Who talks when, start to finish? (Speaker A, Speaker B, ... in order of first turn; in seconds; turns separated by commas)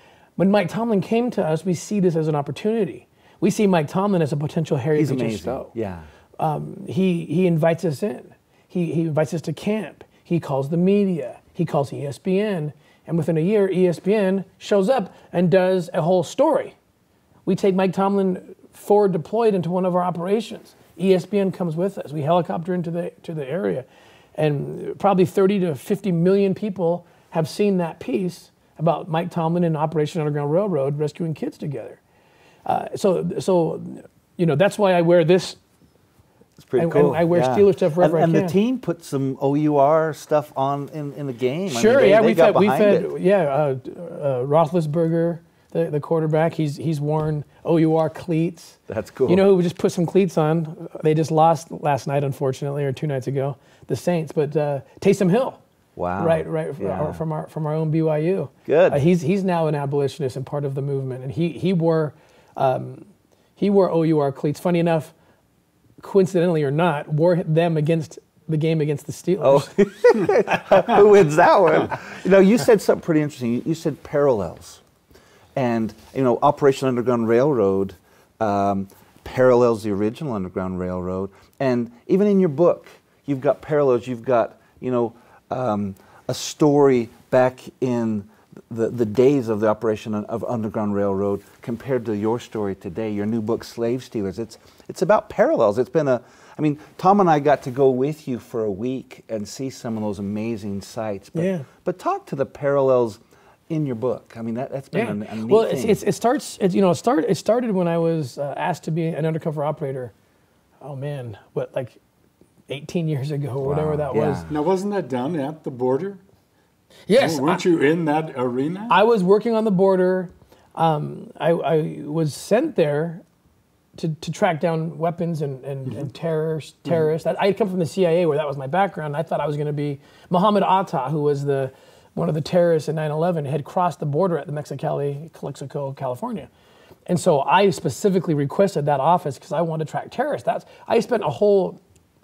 Speaker A: 0.4-5.7, Speaker B: 4.9-6.1, Speaker A: 6.4-16.7, Speaker A: 17.4-23.9, Speaker A: 24.4-32.0, Speaker A: 32.6-35.6, Speaker B: 36.6-43.1, Speaker A: 36.8-38.5, Speaker A: 41.7-55.6, Speaker B: 48.9-49.4, Speaker B: 56.0-57.2, Speaker A: 56.2-65.1, Speaker B: 58.6-59.0, Speaker A: 66.0-69.7, Speaker B: 69.4-74.8, Speaker B: 75.5-106.0, Speaker A: 101.3-101.7, Speaker A: 104.9-110.1, Speaker A: 110.8-112.0, Speaker A: 112.7-114.5, Speaker B: 113.6-114.5, Speaker C: 114.5-116.2, Speaker A: 117.1-117.6, Speaker C: 117.2-119.0, Speaker A: 118.9-123.2, Speaker A: 124.0-136.5, Speaker A: 137.1-141.8